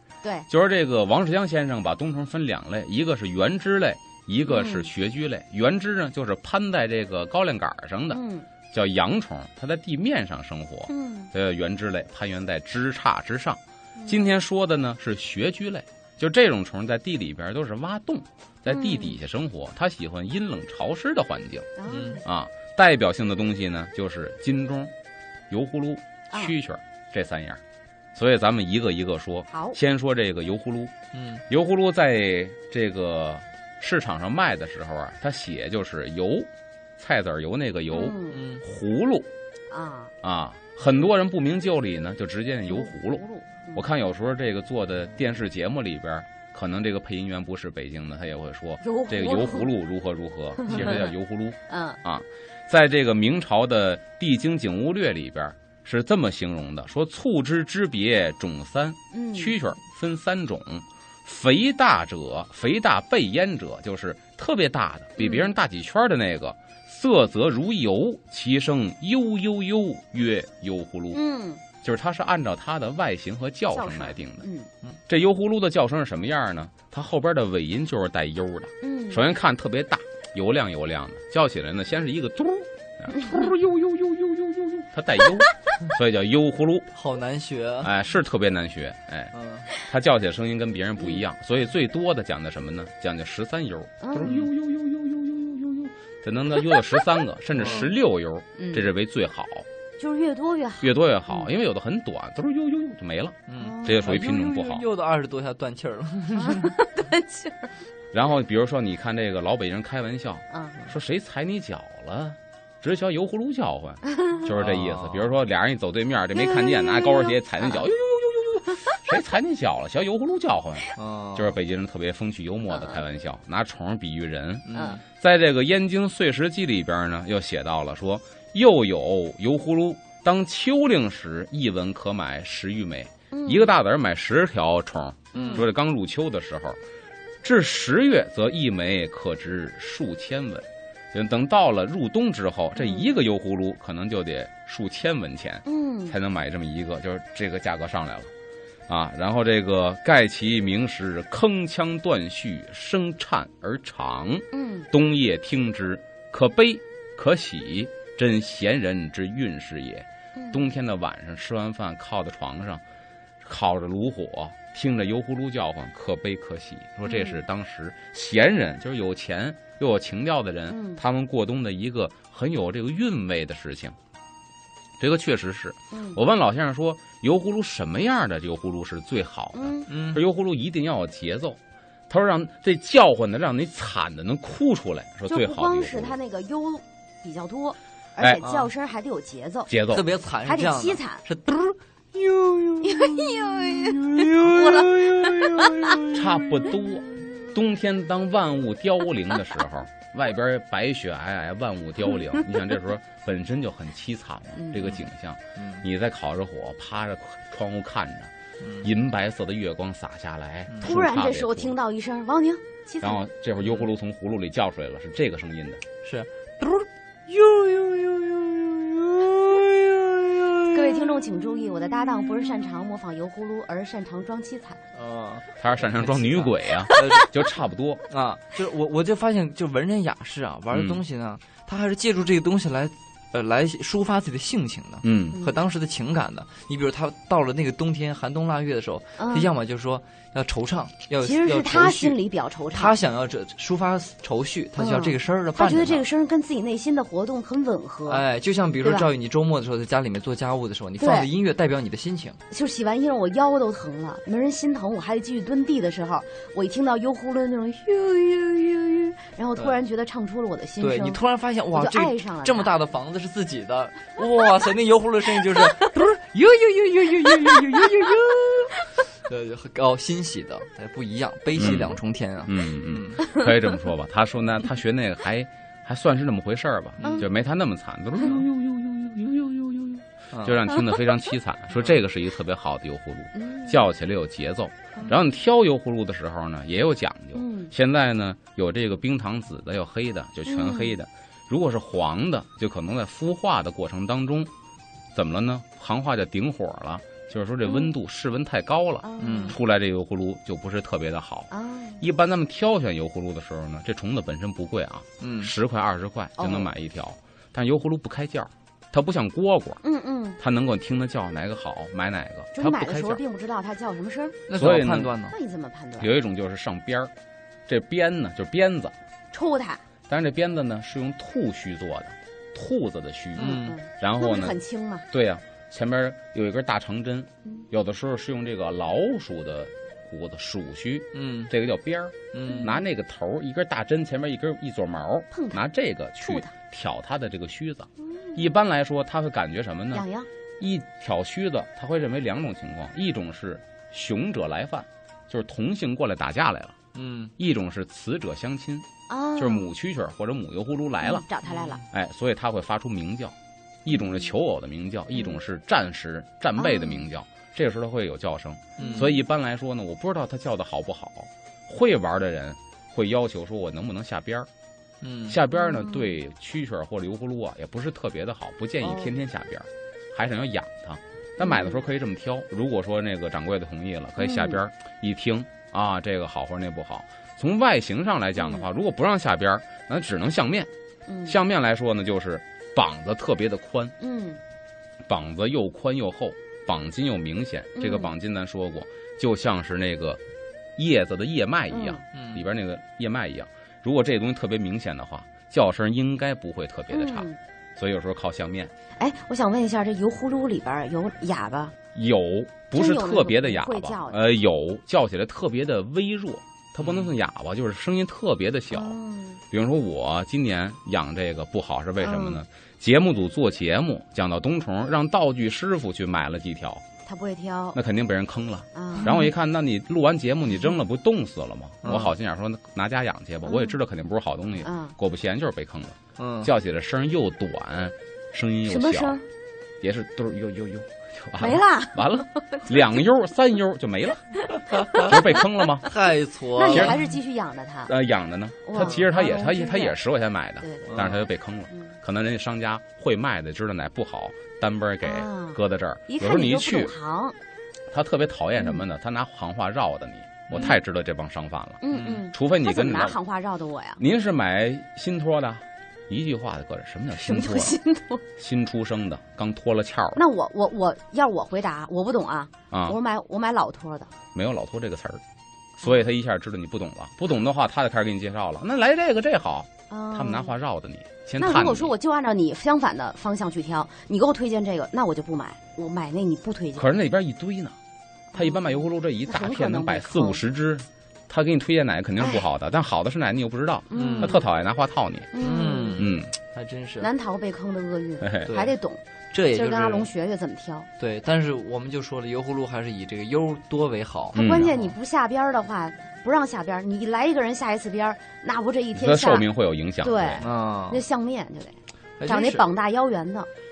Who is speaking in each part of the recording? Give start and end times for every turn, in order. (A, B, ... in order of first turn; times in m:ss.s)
0:00.2-0:00.5 A
0:00.5-0:21.7 B
0:04.5-0:04.9 A
0:08.1-0:08.5 A
0:10.9-0:11.3 A
0:14.0-0:14.3 A
0:18.7-0:19.2 A
0:21.8-0:22.2 A
0:21.9-0:22.2 C
0:22.2-0:24.9 B
0:25.5-0:27.6 B
0:28.2-0:30.9 B
0:29.5-0:29.8 A
0:31.1-0:31.4 C
0:31.5-0:39.3 B
0:37.9-0:38.4 A
0:38.3-0:38.6 C
0:39.7-0:40.1 A
0:40.2-1:11.2 B
0:42.7-0:43.8 A
0:48.8-0:49.7 A
0:50.6-0:51.1 A
0:51.7-0:52.0 A
0:59.1-0:59.6 A
1:05.2-1:05.5 A
1:11.1-1:11.6 A
1:11.8-1:14.4 B
1:13.7-1:14.7 A
1:15.1-1:26.9 B
1:18.8-1:19.3 A
1:26.9-1:27.9 C
1:27.8-1:39.7 B
1:29.3-1:29.7 C
1:34.0-1:34.4 A
1:34.2-1:34.5 C
1:37.6-1:37.9 C
1:38.6-1:38.9 A
1:40.0-1:41.5 A
1:40.8-1:44.8 B
1:43.5-1:46.8 C
1:43.6-1:44.2 A
1:46.4-1:47.7 A
1:48.1-2:16.8 B
1:50.5-1:50.8 A
1:54.1-1:54.4 A
1:54.6-1:55.3 C
1:56.3-1:57.9 A
2:01.0-2:01.6 C
2:02.7-2:03.0 A
2:04.7-2:05.0 C
2:13.3-2:13.7 A
2:15.4-2:15.7 C
2:15.4-2:15.7 A
2:17.4-2:28.3 B
2:22.8-2:23.1 A
2:25.7-2:26.2 A
2:28.9-2:42.8 B
2:34.5-2:34.9 A
2:40.4-2:40.7 A
2:43.4-2:54.0 B
2:47.0-2:47.4 A
2:50.7-2:51.0 A
2:55.0-3:06.2 B
2:55.9-2:56.2 A
2:59.5-2:59.9 A
2:59.9-3:00.2 C
3:05.3-3:09.7 A
3:08.4-3:08.7 C
3:09.7-3:10.1 B
3:09.9-3:16.8 C
3:10.4-3:11.2 A
3:12.8-3:16.0 A
3:16.1-3:31.8 B
3:16.7-3:17.4 A
3:24.6-3:25.0 A
3:25.6-3:25.8 C
3:28.6-3:28.9 C
3:30.8-3:33.2 A
3:33.0-3:35.8 B
3:36.0-3:41.5 C
3:40.7-3:44.8 A
3:45.0-3:47.3 C
3:45.6-3:48.1 B
3:48.1-4:02.2 C
3:50.7-3:51.0 B
3:55.0-3:55.4 B
3:59.2-3:59.5 A
4:01.2-4:03.0 A
4:02.7-4:06.0 C
4:04.8-4:08.2 A
4:08.1-4:12.4 C
4:11.0-4:11.3 A
4:12.5-4:21.2 A
4:20.8-4:33.2 C
4:21.7-4:22.7 A
4:25.6-4:25.9 A
4:27.4-4:27.9 A
4:31.6-4:38.5 B
4:33.2-4:33.5 A
4:37.0-4:37.3 C
4:38.2-4:40.7 C
4:40.4-4:54.5 B
4:40.7-4:41.2 A
4:43.4-4:43.8 A
4:47.4-4:47.7 A
4:50.5-4:51.0 A
4:55.1-5:09.8 B
4:57.6-4:57.9 A
4:59.0-4:59.6 A
4:59.2-4:59.6 C
5:01.5-5:02.0 A
5:05.2-5:05.5 C
5:06.4-5:06.7 A
5:09.8-5:10.4 A
5:10.4-5:13.2 B
5:12.6-5:14.4 A
5:14.5-5:15.4 C
5:14.6-5:15.1 B
5:15.3-5:16.1 A
5:16.0-5:17.1 B
5:17.7-5:18.9 B
5:19.3-5:19.8 A
5:20.1-5:24.6 B
5:23.4-5:23.8 C
5:23.4-5:25.0 A
5:25.1-5:40.1 B
5:31.1-5:31.5 C
5:32.3-5:32.7 C
5:32.5-5:32.8 A
5:35.3-5:35.7 A
5:36.2-5:36.5 A
5:38.2-5:38.5 A
5:39.9-5:40.3 A
5:40.6-5:46.8 B
5:46.9-5:47.3 C
5:47.4-5:51.3 B
5:49.1-5:49.7 A
5:51.0-5:51.8 A
5:51.4-5:51.8 C
5:51.9-6:04.5 B
5:53.9-5:54.3 A
5:55.1-5:55.4 A
5:56.6-5:57.1 A
5:58.8-5:59.1 C
5:58.8-5:59.2 A
6:05.0-6:05.4 C
6:05.3-6:20.7 B
6:05.5-6:06.1 A
6:08.8-6:09.2 A
6:11.4-6:11.8 A
6:14.2-6:14.6 A
6:18.4-6:18.6 A
6:21.1-6:21.4 A
6:21.3-6:23.9 B
6:24.0-6:24.4 A
6:25.1-6:30.2 B
6:27.8-6:28.1 A
6:30.8-6:38.7 B
6:31.7-6:32.0 A
6:32.1-6:32.4 C
6:36.9-6:37.4 A
6:39.0-6:41.7 A
6:41.9-6:49.0 B
6:42.7-6:44.3 A
6:46.8-6:47.1 C
6:48.7-6:49.4 A
6:49.5-6:56.8 B
6:52.0-6:52.4 A
6:57.1-6:57.8 A
6:57.8-7:09.2 B
6:58.8-6:59.3 A
7:01.8-7:02.1 A
7:03.4-7:03.8 A
7:04.6-7:05.0 A
7:06.2-7:06.5 C
7:08.7-7:09.2 A
7:09.8-7:15.9 B
7:11.4-7:12.8 A
7:14.7-7:15.1 C
7:15.0-7:15.4 A
7:15.8-7:17.0 C
7:16.6-7:17.9 A
7:16.7-7:17.0 B
7:17.9-7:26.9 B
7:18.7-7:20.0 A
7:20.6-7:21.1 A
7:20.9-7:21.3 C
7:25.0-7:27.4 A
7:27.9-7:33.2 B
7:28.6-7:28.8 A
7:31.8-7:34.0 A
7:31.9-7:32.2 C
7:34.0-7:37.8 B
7:37.1-7:38.2 A
7:38.4-7:40.2 B
7:40.2-7:44.1 A
7:42.7-7:43.0 B
7:44.3-7:45.2 B
7:45.8-7:51.9 B
7:49.9-7:50.5 A
7:51.4-7:56.9 A
7:56.8-7:57.8 B
7:58.3-8:00.4 A
7:58.4-8:05.3 B
8:02.2-8:02.5 A
8:03.9-8:04.4 A
8:03.9-8:04.4 C
8:05.3-8:06.0 A
8:05.4-8:07.1 C
8:06.0-8:06.3 B
8:07.0-8:09.0 A
8:08.2-8:08.5 B
8:08.5-8:08.7 C
8:09.3-8:10.1 C
8:09.5-8:10.9 A
8:11.0-8:15.0 C
8:14.3-8:19.5 A
8:14.4-8:14.7 B
8:19.0-8:20.4 B
8:20.0-8:23.5 A
8:20.4-8:21.0 C
8:22.2-8:22.6 C